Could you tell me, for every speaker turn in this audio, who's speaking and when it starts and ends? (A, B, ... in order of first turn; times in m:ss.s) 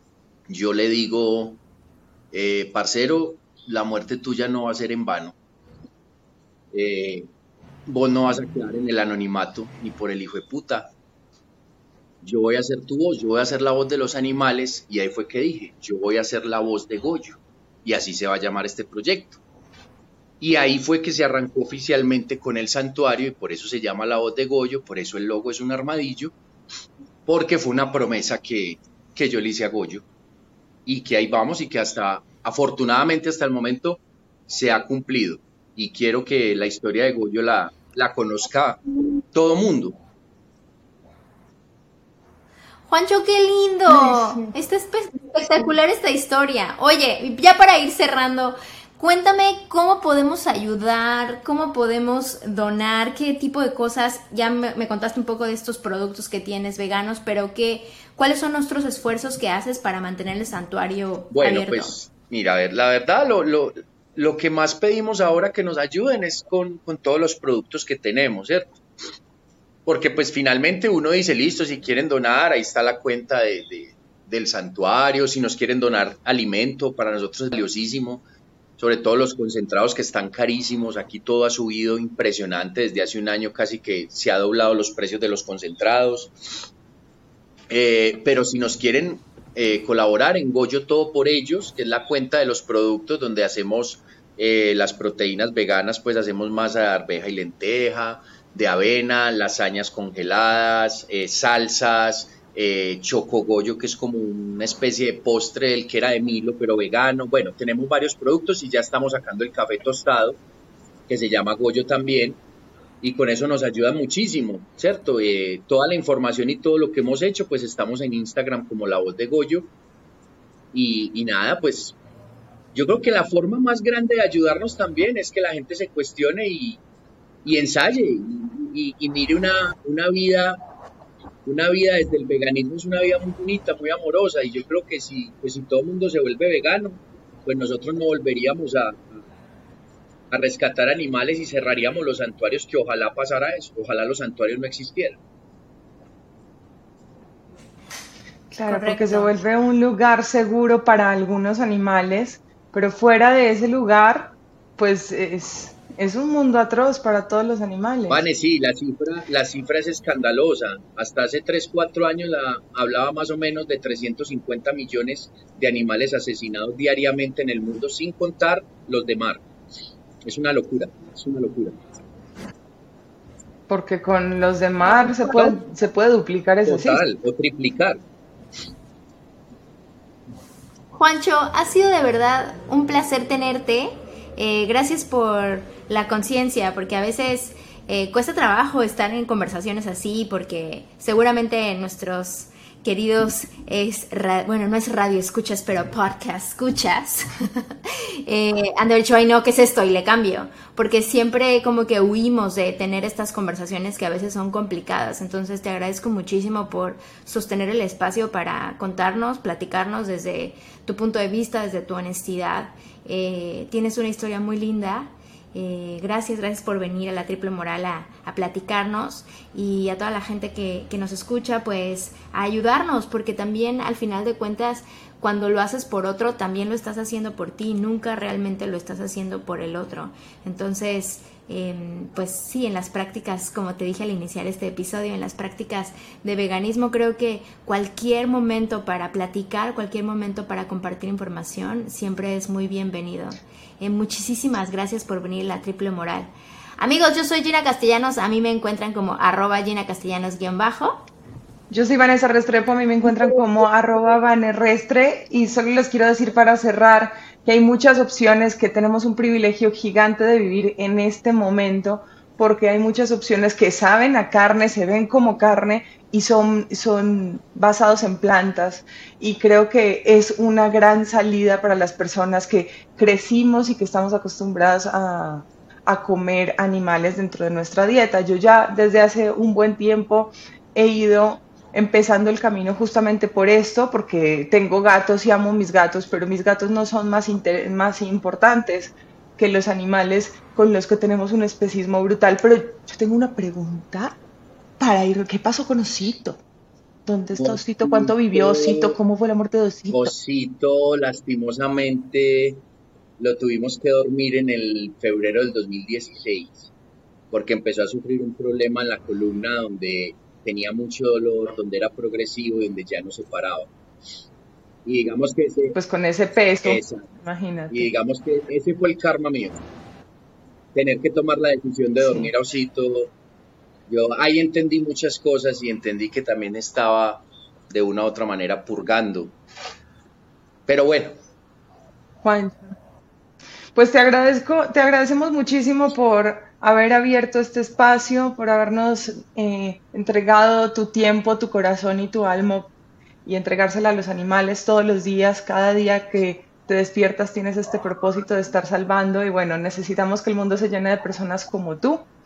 0:00.5-0:01.6 A
0:02.3-0:05.4 A
0:06.7-0:07.3 A
0:07.9-0:10.9 A
0:12.2-0:19.4 A
0:20.4-0:26.3 A
0:27.3-0:30.0 A
0:30.9-0:38.8 A
0:39.3-0:40.0 A
0:42.9-1:01.9 B
0:44.0-0:44.5 C
1:01.3-1:08.8 A
1:09.9-1:18.2 A
1:18.8-1:26.6 A
1:27.7-1:50.4 A
1:51.1-1:52.4 A
1:53.0-1:59.7 A
2:00.7-2:02.0 A
2:02.7-2:06.8 A
2:07.4-2:10.6 A
2:11.5-2:19.2 A
2:20.3-2:25.2 A
2:28.6-2:38.2 C
2:28.6-2:29.3 B
2:38.1-2:49.4 A
2:50.2-2:51.8 A
2:53.7-2:57.0 C
2:54.9-2:55.6 A
2:56.6-2:58.0 A
3:01.0-3:17.7 B
3:18.2-4:11.0 B
4:11.7-4:54.2 C
4:54.8-4:56.4 C
4:57.1-5:00.1 C
4:57.4-4:59.0 A
4:59.9-5:02.6 A
5:03.2-5:06.7 A
5:07.3-5:13.7 A
5:14.8-5:15.8 A
5:15.8-5:17.9 C
5:16.6-5:17.1 A
5:17.7-5:19.6 A
5:20.7-5:23.1 A
5:22.0-5:22.3 C
5:23.9-5:29.4 A
5:30.7-5:31.2 A
5:32.2-5:32.8 C
5:33.8-5:42.7 C
5:43.2-5:52.1 C